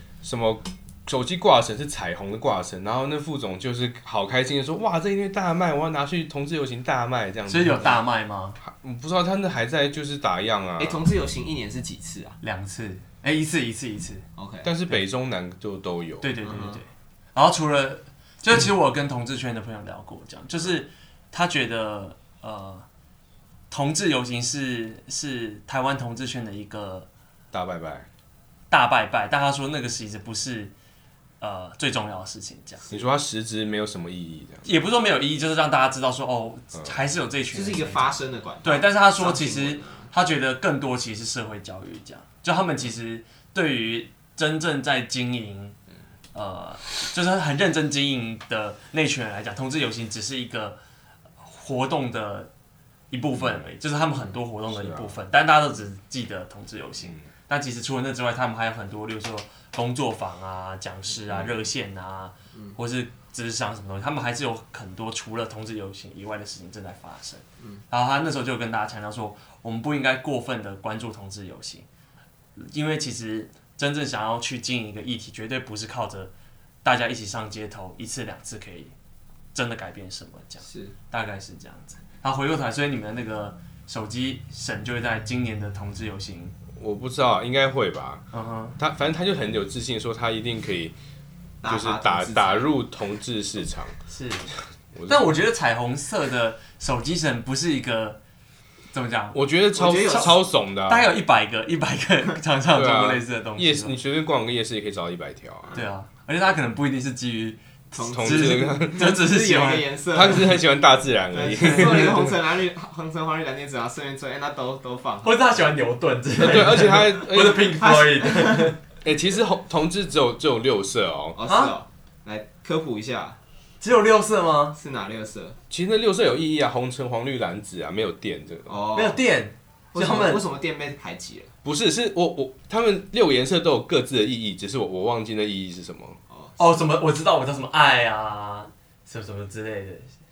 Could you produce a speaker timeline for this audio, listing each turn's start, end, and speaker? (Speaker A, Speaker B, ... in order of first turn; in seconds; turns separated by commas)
Speaker A: 0.2-8.0, Speaker B: 7.5-8.6, Speaker A: 8.6-11.0, Speaker C: 10.8-12.4, Speaker B: 12.4-14.2, Speaker C: 14.3-14.7, Speaker A: 14.6-16.3, Speaker B: 16.2-22.9, Speaker C: 16.4-16.8, Speaker B: 23.7-27.1, Speaker A: 27.5-28.1, Speaker B: 28.7-30.7, Speaker B: 31.4-32.8, Speaker A: 32.9-34.6, Speaker B: 34.6-38.1, Speaker C: 37.5-40.1, Speaker B: 38.6-45.8, Speaker B: 46.3-50.8, Speaker B: 51.4-52.5, Speaker B: 53.1-71.8, Speaker A: 53.4-53.6, Speaker A: 54.7-55.2, Speaker A: 61.3-61.6, Speaker B: 72.5-76.3, Speaker B: 76.8-78.9, Speaker B: 79.5-86.5, Speaker C: 80.6-80.9, Speaker A: 86.7-88.2, Speaker B: 88.3-88.8, Speaker A: 88.8-90.9, Speaker C: 91.6-92.7, Speaker A: 91.6-94.0, Speaker B: 94.1-94.5, Speaker A: 94.9-95.3, Speaker B: 95.1-98.2, Speaker B: 98.9-99.4, Speaker A: 99.3-101.1, Speaker C: 99.7-100.4, Speaker B: 100.0-100.3, Speaker B: 100.9-103.9, Speaker A: 102.7-105.8, Speaker B: 105.7-109.9, Speaker C: 107.9-110.6, Speaker A: 108.1-109.1, Speaker A: 110.1-112.4, Speaker C: 111.3-115.6, Speaker B: 115.2-118.8, Speaker A: 116.4-117.8, Speaker C: 117.8-118.7, Speaker A: 119.0-121.4, Speaker C: 121.3-123.4, Speaker B: 121.5-121.7, Speaker B: 123.8-124.8, Speaker C: 124.8-125.6, Speaker A: 125.7-128.8, Speaker C: 128.7-129.2, Speaker B: 128.9-130.4, Speaker C: 129.9-131.5, Speaker A: 131.6-136.2, Speaker C: 136.3-136.6, Speaker B: 136.6-140.1